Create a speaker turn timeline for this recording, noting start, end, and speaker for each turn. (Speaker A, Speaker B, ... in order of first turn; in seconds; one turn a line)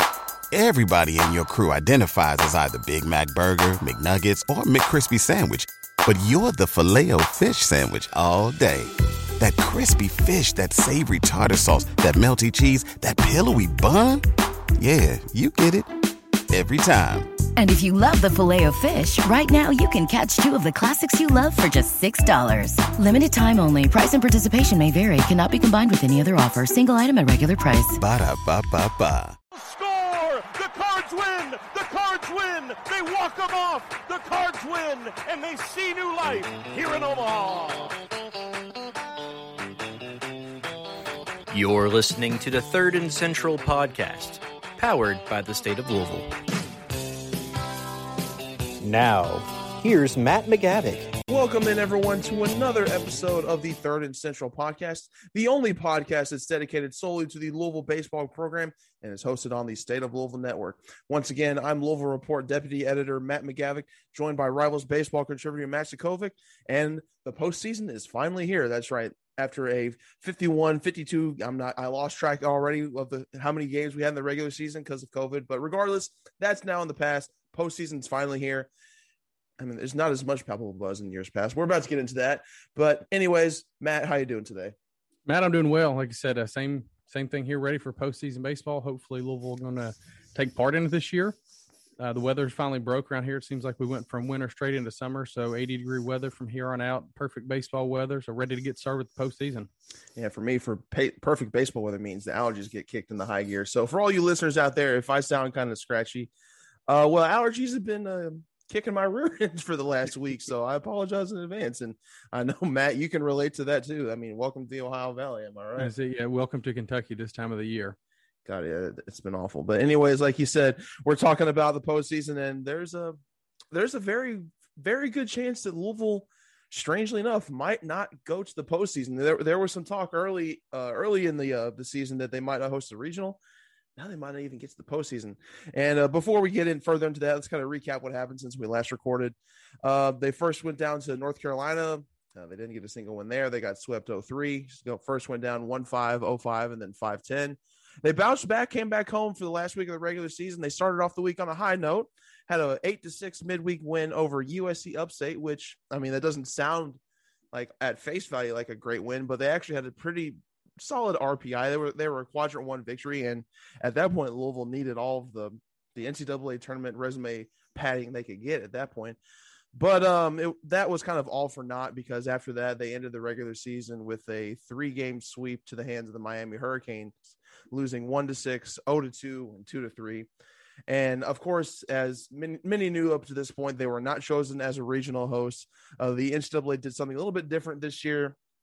Speaker A: 0.5-14.2
Speaker A: 14.8-15.9
Speaker A: 16.5-17.3
Speaker B: 17.6-28.0
Speaker A: 28.0-29.4
Speaker C: 29.5-38.0
Speaker D: 41.5-46.3
Speaker D: 48.8-51.2
Speaker E: 51.3-78.7
Speaker E: 79.6-84.8
Speaker F: 85.3-91.4
Speaker F: 92.0-99.7
Speaker E: 100.2-106.3
Speaker E: 106.9-115.9
Speaker F: 115.8-118.0
Speaker E: 118.5-123.2
Speaker E: 123.7-133.4
Speaker E: 134.0-157.0
Speaker E: 157.5-169.2
Speaker E: 169.7-180.3
Speaker E: 180.9-188.4